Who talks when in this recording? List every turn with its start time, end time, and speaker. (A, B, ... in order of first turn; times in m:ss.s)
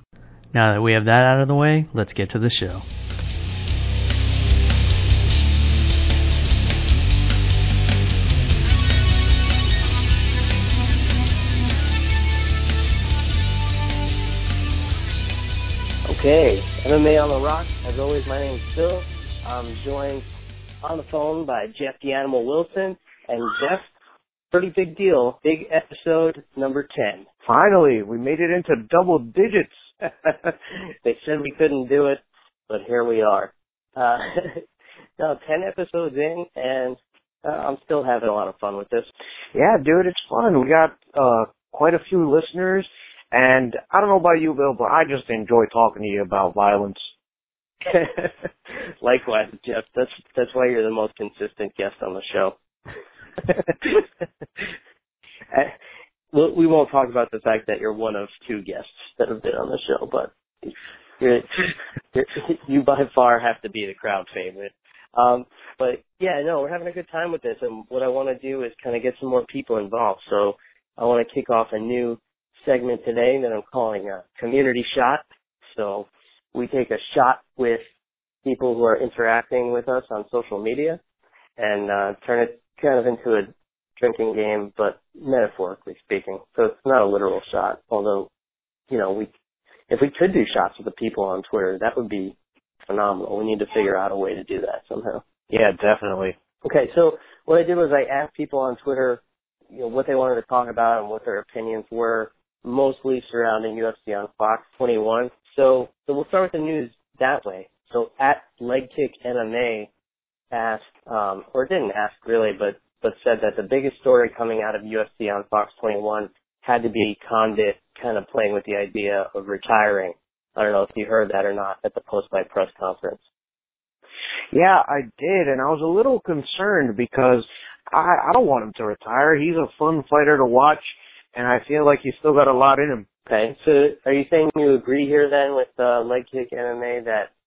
0:00.5-0:02.8 A
0:16.0-0:20.2 B
0:20.8-0:23.9 B
0:24.5-0:27.2 B
0:27.4-0:29.7 C
0:30.0-0:34.6 B
0:35.2-0:39.1 B
0:39.6-0:47.1 C
0:47.8-0:52.5 B
0:53.4-0:54.0 B
0:56.3-1:17.8 B
1:18.4-1:21.0 B
1:21.6-1:28.3 B
1:28.9-1:29.3 B
1:29.9-1:32.3 B
1:32.9-1:35.2 B
1:35.5-1:36.3 C
1:36.6-1:49.9 B
1:50.5-2:03.2 B
2:04.5-2:13.1 C
2:13.3-2:17.3 B